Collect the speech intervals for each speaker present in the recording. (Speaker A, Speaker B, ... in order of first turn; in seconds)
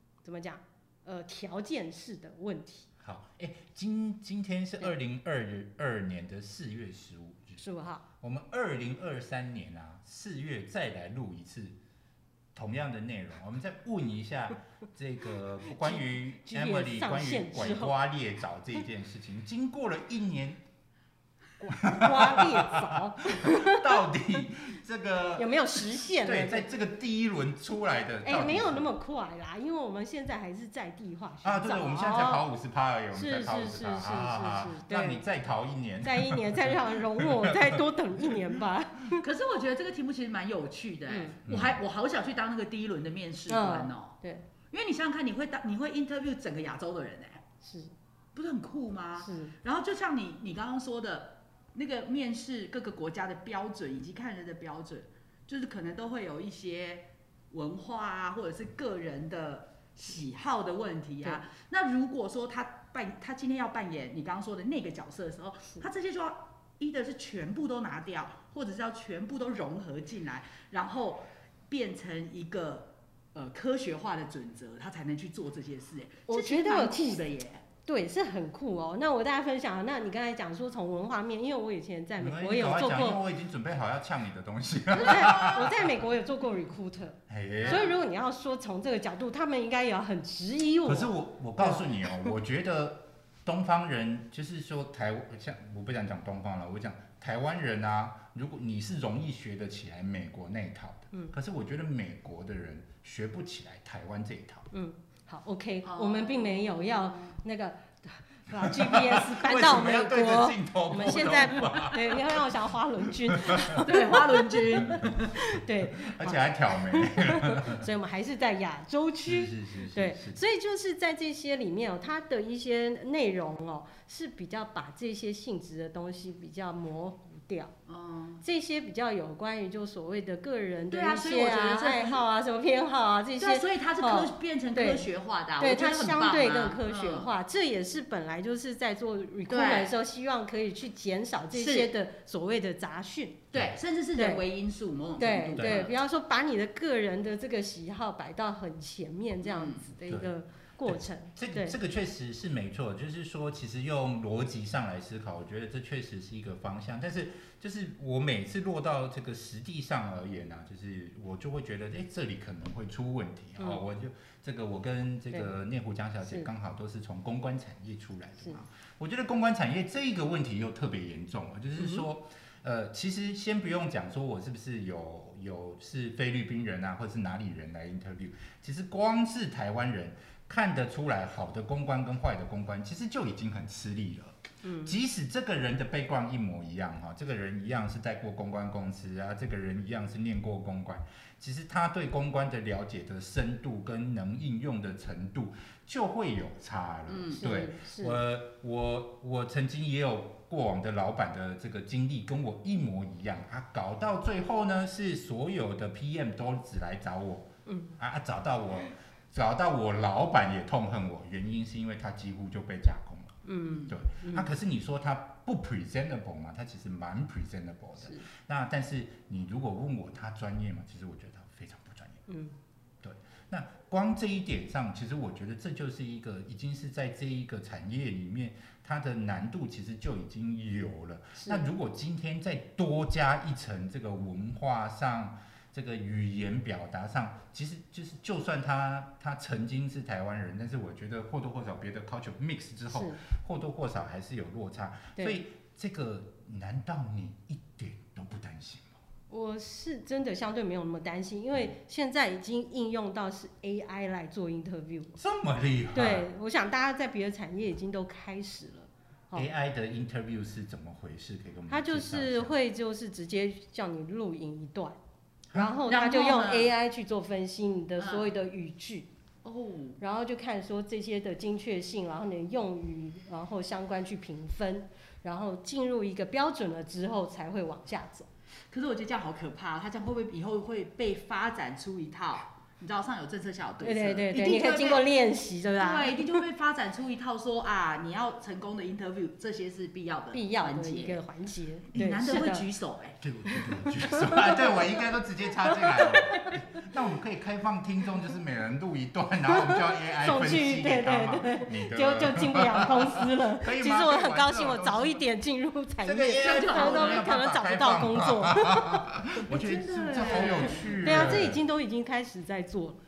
Speaker A: 0.2-2.9, 7.6-8.1, 15.7-17.9, 21.6-24.0, 25.4-26.7, 28.2-32.5, 33.1-35.2, 36.0-39.2, 41.1-41.4, 43.5-44.5, 47.6-47.9, 49.2-49.5, 76.3-77.2, 77.9-83.2, 85.0-92.3, 104.7-127.7, 128.4-135.1, 135.6-143.4, 144.2-144.4, 145.2-151.8, 166.2-166.5, 184.6-184.9, 197.3-198.2, 207.7-208.0, 213.4-214.5, 218.0-218.3, 222.3-222.6, 231.4-231.6, 242.9-243.2, 245.2-245.4, 249.3-255.2, 255.9-259.5, 261.7-265.0, 265.5-269.1, 270.0-278.3, 283.8-286.4, 290.3-292.7, 294.0-294.8, 295.7-296.8, 299.5-313.0
Speaker B: 3.0-7.6, 8.2-11.8, 12.5-20.6, 21.7-28.9, 31.4-38.4, 41.5-41.8, 82.2-85.9, 87.3-87.9, 90.8-104.7, 108.5-113.8, 115.9-117.9, 119.3-120.4, 145.6-145.9, 150.1-150.3, 150.9-222.3, 223.0-249.0, 255.2-256.3, 259.3-262.5, 293.2-305.2, 306.0-311.6
Speaker C: 39.2-44.2, 44.7-47.4, 48.4-77.6, 85.2-85.6, 87.6-88.0, 105.8-107.4, 113.7-115.4, 127.9-128.4, 130.9-132.2, 133.4-137.3, 139.5-139.9, 141.5-141.9, 143.5-145.9, 149.4-149.9, 197.1-197.5, 265.9-266.7, 268.0-268.3, 269.4-270.0, 278.7-285.1, 285.8-291.2, 291.9-293.2, 306.4-307.3, 309.5-311.4